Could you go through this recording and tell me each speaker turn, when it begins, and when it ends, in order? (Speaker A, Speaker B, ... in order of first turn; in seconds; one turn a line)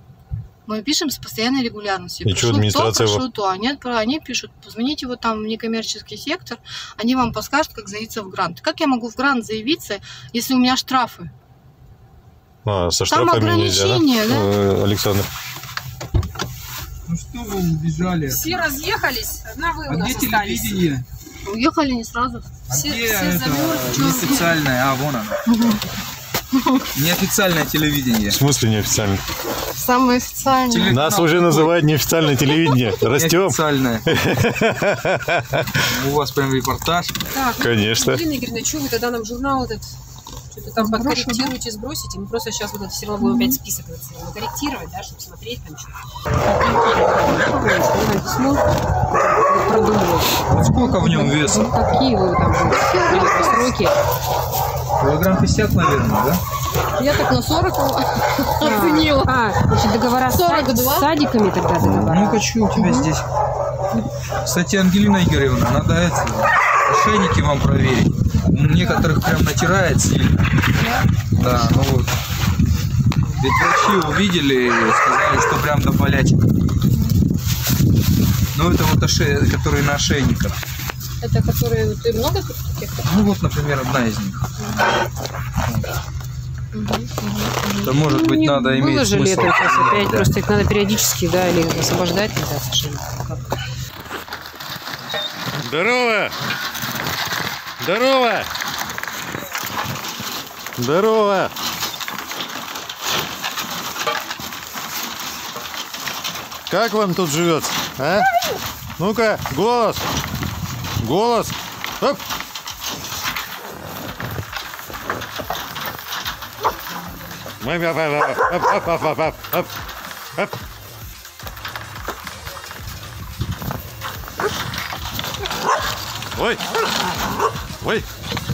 Speaker A: 0.7-11.3
Speaker B: 2.2-3.2
Speaker B: 12.6-15.3
Speaker A: 13.1-14.5
Speaker C: 17.1-18.6
Speaker D: 18.2-20.8
Speaker C: 19.9-21.0
Speaker A: 21.4-22.5
Speaker C: 22.7-25.4
Speaker D: 22.7-24.4
Speaker A: 23.9-24.6
Speaker A: 25.5-25.8
Speaker A: 26.5-26.8
Speaker C: 26.9-28.4
Speaker B: 28.3-29.2
Speaker A: 29.7-31.0
Speaker C: 30.7-31.7
Speaker B: 30.9-35.8
Speaker C: 33.1-34.1
Speaker C: 35.9-37.2
Speaker D: 37.3-39.9
Speaker B: 37.6-38.2
Speaker D: 40.5-46.0
Speaker D: 46.5-54.0
Speaker C: 50.5-51.7
Speaker A: 50.8-51.3
Speaker A: 52.6-53.8
Speaker C: 55.0-56.4
Speaker A: 57.0-59.3
Speaker D: 58.6-62.5
Speaker A: 60.3-61.1
Speaker C: 61.8-63.2
Speaker A: 62.7-63.1
Speaker C: 64.4-70.5
Speaker C: 71.3-72.1
Speaker C: 73.3-76.5
Speaker A: 76.9-77.2
Speaker C: 78.5-80.6
Speaker A: 81.2-83.0
Speaker C: 83.0-84.4
Speaker A: 84.6-84.9
Speaker A: 86.7-88.2
Speaker C: 87.8-90.3
Speaker D: 88.1-93.4
Speaker B: 95.6-96.3
Speaker B: 97.8-98.5
Speaker B: 100.8-101.5
Speaker B: 106.7-108.3
Speaker B: 109.0-110.0
Speaker B: 111.0-112.2
Speaker B: 117.6-119.7
Speaker B: 126.3-126.6
Speaker B: 127.8-128.1